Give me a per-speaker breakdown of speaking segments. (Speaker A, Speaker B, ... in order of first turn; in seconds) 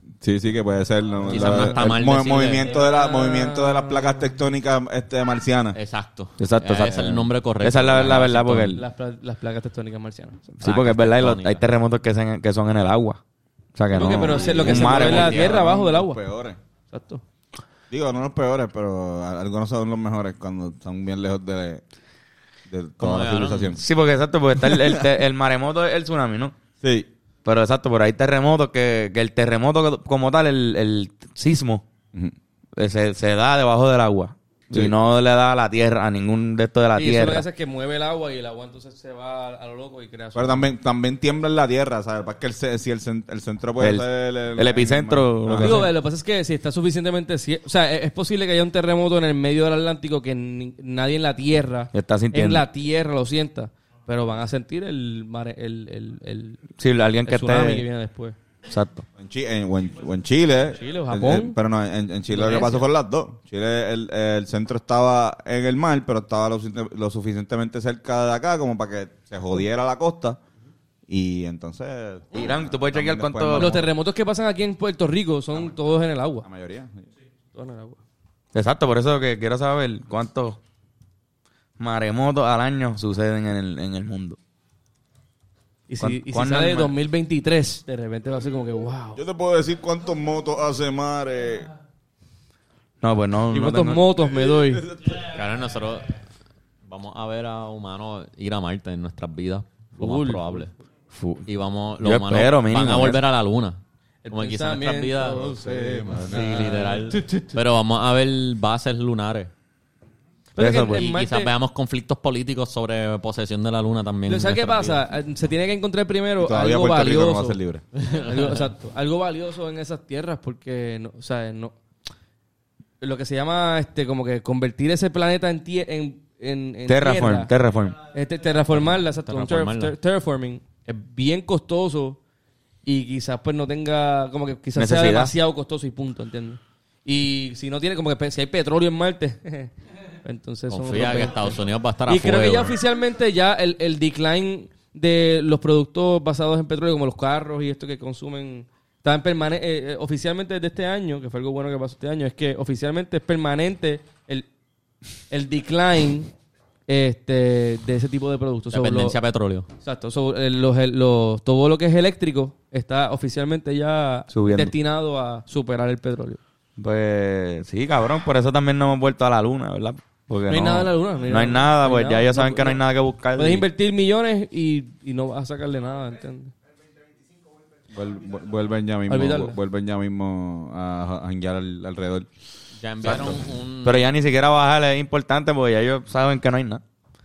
Speaker A: 0.2-5.8, 14.3-16.6, 17.9-21.8, 22.7-23.8, 24.6-25.0, 26.8-27.1, 40.4-45.9, 59.2-70.4, 71.1-73.9, 76.4-77.0, 89.2-91.7, 94.4-95.3, 105.3-106.8, 116.4-117.8, 177.9-182.3
Speaker B: 1.3-2.7, 5.8-8.8, 10.6-11.7, 14.3-15.4, 23.0-23.8, 95.2-96.2, 96.9-100.7, 101.5-105.5, 106.2-109.5, 110.9-115.0, 118.0-118.7, 128.7-129.9, 140.7-142.8, 158.7-159.7, 182.8-184.1
Speaker C: 2.6-4.3, 8.7-10.4, 13.9-16.2, 16.9-17.2, 37.0-40.7, 45.6-56.6, 57.3-58.4, 60.8-61.6, 62.3-62.9, 73.5-76.5, 77.5-78.0, 85.9-89.2, 93.5-94.8, 100.0-100.7, 104.2-107.6, 110.6-111.5, 114.3-121.7, 123.0-127.5, 128.1-132.2, 132.8-139.7, 140.2-154.5, 155.3-156.3, 156.9-159.2, 159.8-166.4, 170.5-172.8, 173.4-176.5, 179.1-179.6
Speaker D: 6.4-8.8, 10.6-13.2, 13.8-15.5, 23.8-26.6, 27.4-31.8, 32.8-37.5, 43.8-45.9, 51.9-52.7, 56.8-57.9, 58.7-59.0, 72.3-73.8, 78.5-80.6, 81.8-84.4, 86.0-86.9, 93.0-94.1, 101.1-101.5, 102.0-103.2, 110.6-111.1, 126.9-128.0, 134.8-135.3, 164.3-164.7, 166.8-173.7, 183.0-186.8